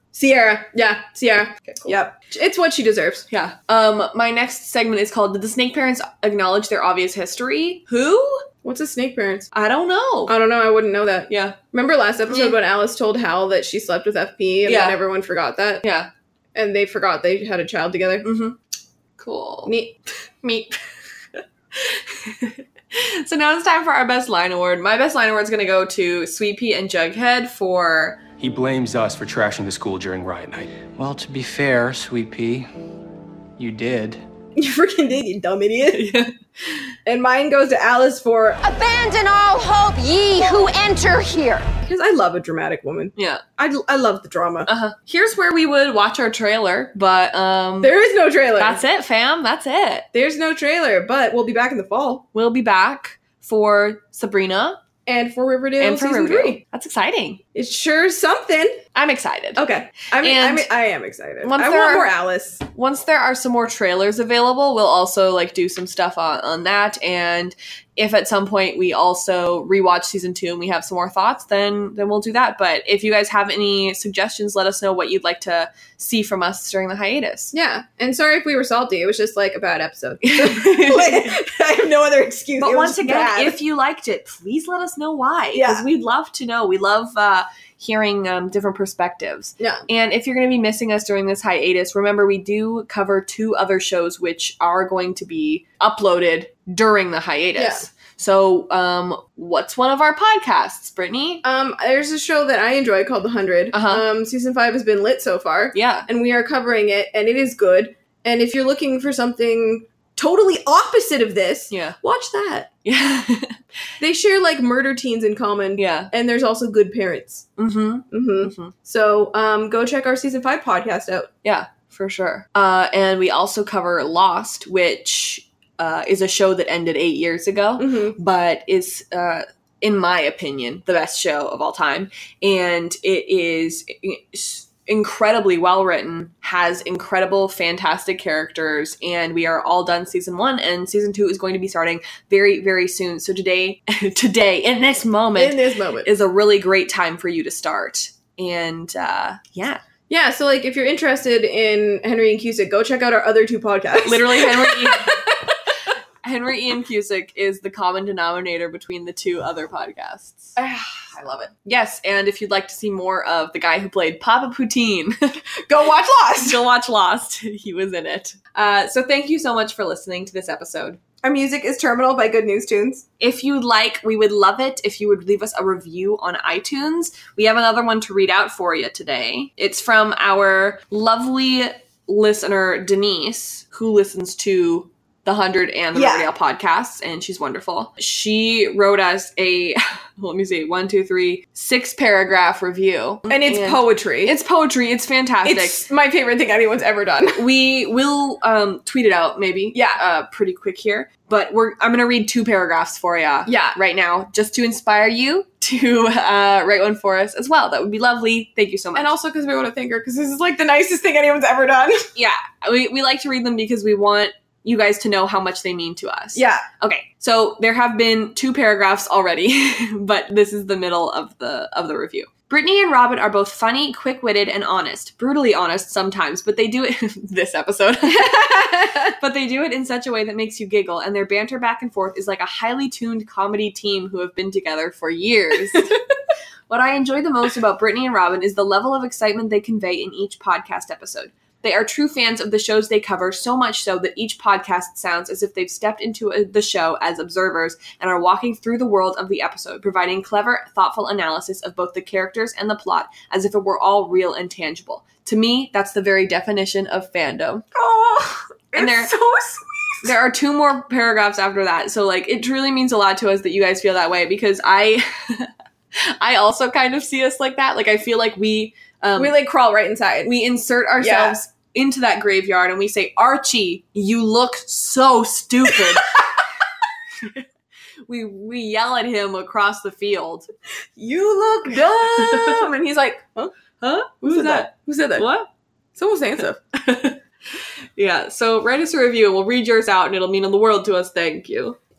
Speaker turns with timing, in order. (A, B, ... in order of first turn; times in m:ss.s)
0:00.1-0:03.3 A
0:01.6-0:02.0 B
0:03.3-0:08.4 B
0:08.6-0:09.5 A
0:09.5-0:10.3 B
0:10.3-0:15.8 A
0:11.3-0:11.6 B
0:12.3-0:12.6 B
0:14.6-0:15.0 B
0:15.8-0:16.1 B
0:16.5-0:18.3 A
0:18.2-0:18.6 B
0:19.2-0:19.7 B
0:19.6-0:19.9 A
0:20.4-0:20.7 B
0:21.4-0:28.2 B
0:28.4-0:30.9 C
0:30.9-0:32.6 D
0:33.6-0:34.2 D
0:34.6-0:36.0 A
0:35.9-0:36.9 B
0:37.0-0:38.6 A
0:38.6-0:41.7 E
0:41.8-0:44.7 A
0:43.2-0:43.4 B
0:44.6-0:47.9 B
0:47.8-0:48.8 A
0:48.6-0:50.1 B
0:50.1-0:52.2 A
0:52.3-0:54.8 B
0:55.0-0:56.6 A
0:55.8-0:57.4 B
0:57.5-0:58.8 A
0:58.9-0:59.6 B
0:59.5-1:02.6 A
1:00.2-1:00.7 B
1:01.4-1:02.1 B
1:02.7-1:17.5 B
1:17.5-1:23.6 A
1:20.2-1:21.4 B
1:22.6-1:41.4 B
1:25.5-1:25.8 A
1:29.6-1:29.8 A
1:37.6-1:37.9 A
1:41.4-1:52.7 A
1:43.7-1:44.0 B
1:45.7-1:46.1 B
1:51.7-1:52.0 B
1:52.8-1:53.6 B
1:54.0-1:57.4 A
1:55.8-1:56.1 B
1:57.6-1:58.7 B
1:58.1-2:01.3 A
2:01.4-2:29.8 B
2:07.8-2:08.2 A
2:25.4-2:26.1 A
2:30.1-2:35.5 A
2:34.0-2:35.2 B
2:36.2-2:40.6 B
2:40.6-2:41.5 A
2:41.5-2:45.4 B
2:45.6-2:46.6 A
2:46.4-2:51.0 B
2:51.2-2:53.0 A
2:53.2-3:15.8 B
3:05.9-3:06.3 A
3:13.3-3:14.3 A
3:15.4-3:17.4 A
3:17.4-3:29.1 B
3:19.7-3:20.0 A
3:23.4-3:23.8 A
3:28.9-3:32.1 A
3:32.1-3:56.0 B
3:36.3-3:36.6 A
3:48.1-3:49.1 A
3:56.7-4:17.6 B
4:17.7-4:20.1 A
4:18.7-4:19.1 B
4:20.0-4:29.3 B
4:29.2-4:30.3 A
4:30.2-4:36.1 B
4:31.0-4:31.4 A
4:37.2-4:37.4 B
4:38.1-4:40.5 B
4:41.0-4:43.5 A
4:41.7-4:42.7 B
4:43.8-4:45.5 B
4:44.2-4:45.3 A
4:46.0-4:46.6 A
4:46.7-4:51.8 B